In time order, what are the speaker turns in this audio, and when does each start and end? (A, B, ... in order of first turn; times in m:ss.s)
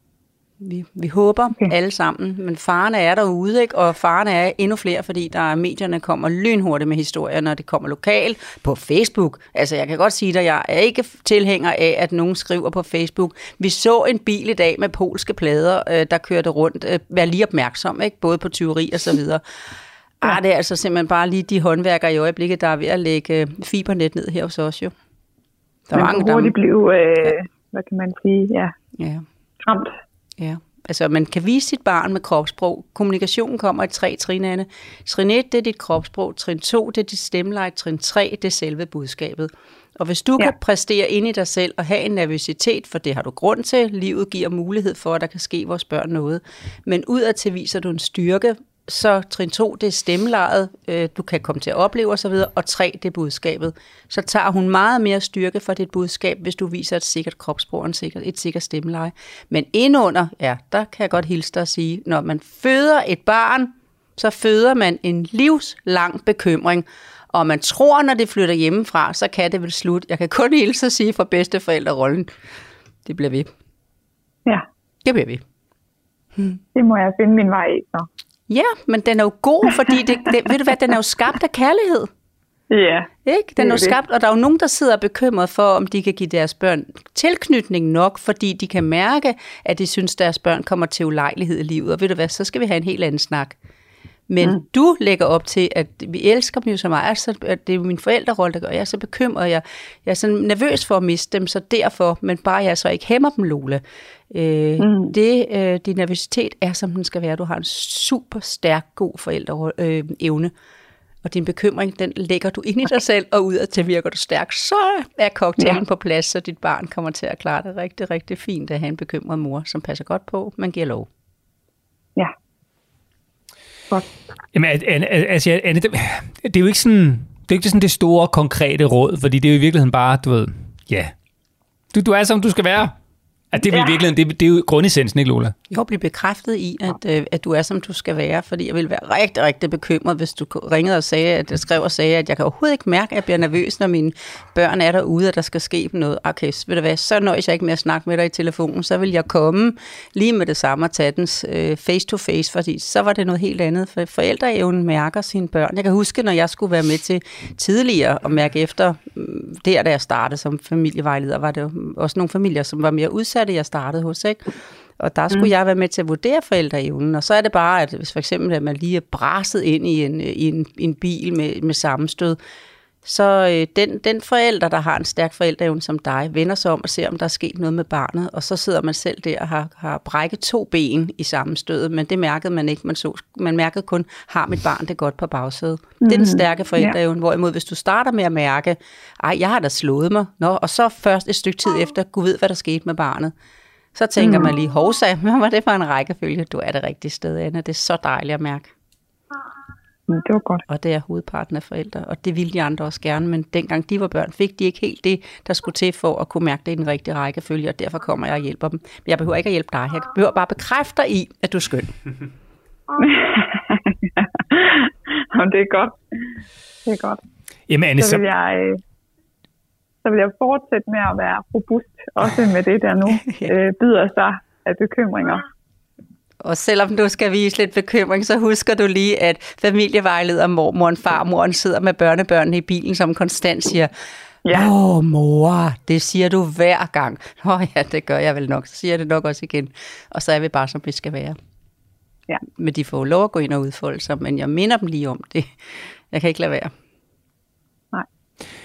0:00.6-0:19.4 A
0:20.2-0:24.9 A
0:25.9-0:26.5 A
0:25.9-0:28.7 B
0:28.9-0:29.2 A
0:29.6-0:30.0 B
0:30.4-1:12.3 A
1:13.0-1:13.5 A
1:15.0-1:15.4 A
1:16.7-1:18.1 B
1:18.5-1:22.1 A
1:22.7-1:24.0 B
1:23.2-1:33.6 A
1:34.3-1:50.5 A
1:44.8-1:45.1 B
1:51.2-2:01.1 A
2:04.5-2:11.1 C
2:11.9-2:12.9 C
2:13.5-2:15.5 C
2:13.7-2:14.0 B
2:15.7-2:44.4 A
2:45.0-2:52.4 A
2:53.0-3:13.3 A
3:06.0-3:07.0 B
3:13.9-3:18.7 A
3:14.2-3:14.5 B
3:20.1-3:20.6 B
3:20.7-3:32.0 A
3:32.9-3:36.2 B
3:36.8-3:37.2 B
3:37.7-3:38.2 C
3:38.0-3:38.8 B
3:40.0-3:45.4 B
3:43.2-3:43.5 A
3:46.4-3:53.9 A
3:54.4-3:54.7 B
3:54.5-4:01.4 A
4:02.4-4:05.6 A
4:06.1-4:06.7 A